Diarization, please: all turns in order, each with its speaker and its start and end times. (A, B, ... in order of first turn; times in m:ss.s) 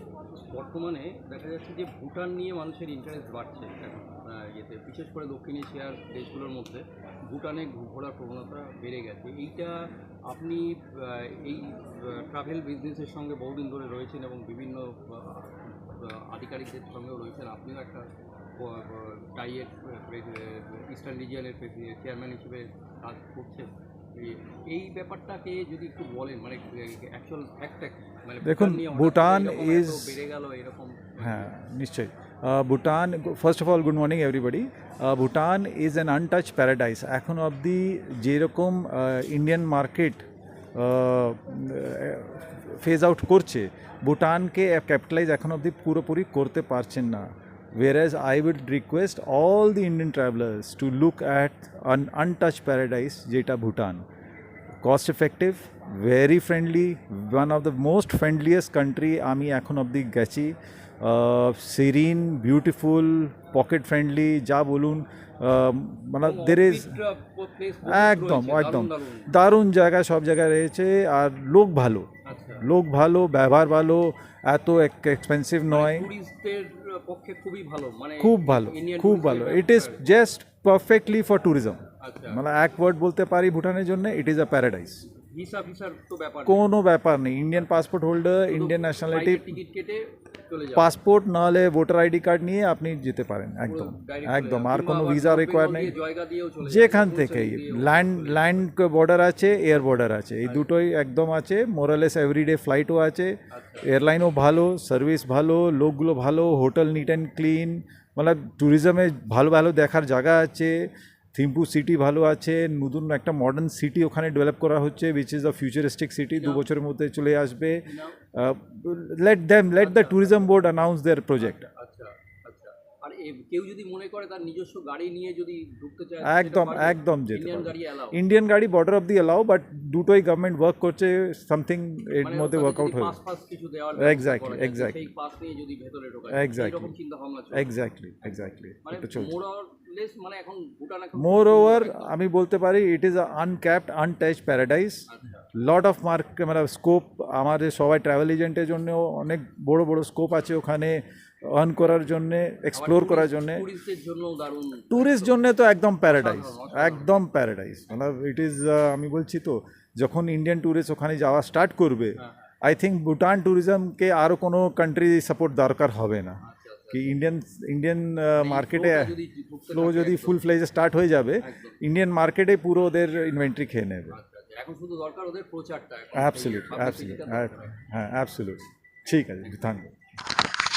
0:00.3-0:31.5 A
0:28.4-0:30.2 B
0:31.2-0:40.2 B
0:40.8-0:54.0 B
0:54.8-1:06.9 B
1:06.2-1:09.3 A
1:07.8-1:12.1 B
1:12.2-1:12.6 A
1:12.6-1:16.1 B
1:15.7-1:20.0 A
1:18.2-1:25.0 B
1:22.0-1:22.4 A
1:25.1-1:26.6 A
1:26.4-1:29.6 B
1:28.5-1:30.9 A
1:30.8-1:35.9 B
1:33.6-1:38.7 A
1:36.6-1:43.3 B
1:43.5-1:43.8 A
1:43.8-1:50.7 B
1:51.3-1:57.8 B
1:56.4-1:56.7 A
1:57.8-1:58.2 A
1:58.3-2:01.7 B
1:59.8-2:00.6 A
2:01.4-2:08.2 A
2:06.2-2:13.2 B
2:12.2-2:22.1 A
2:14.0-2:15.1 B
2:16.3-2:16.9 B
2:17.5-2:19.3 B
2:21.2-2:33.6 B
2:25.1-2:25.4 A
2:32.7-2:35.4 A
2:34.9-2:46.4 B
2:36.1-2:37.2 A
2:46.4-2:47.1 A
2:46.9-2:49.2 B
2:48.4-2:50.4 A
2:49.7-2:54.2 B
2:51.4-2:51.8 A
2:54.1-2:57.8 A
2:56.2-2:59.9 B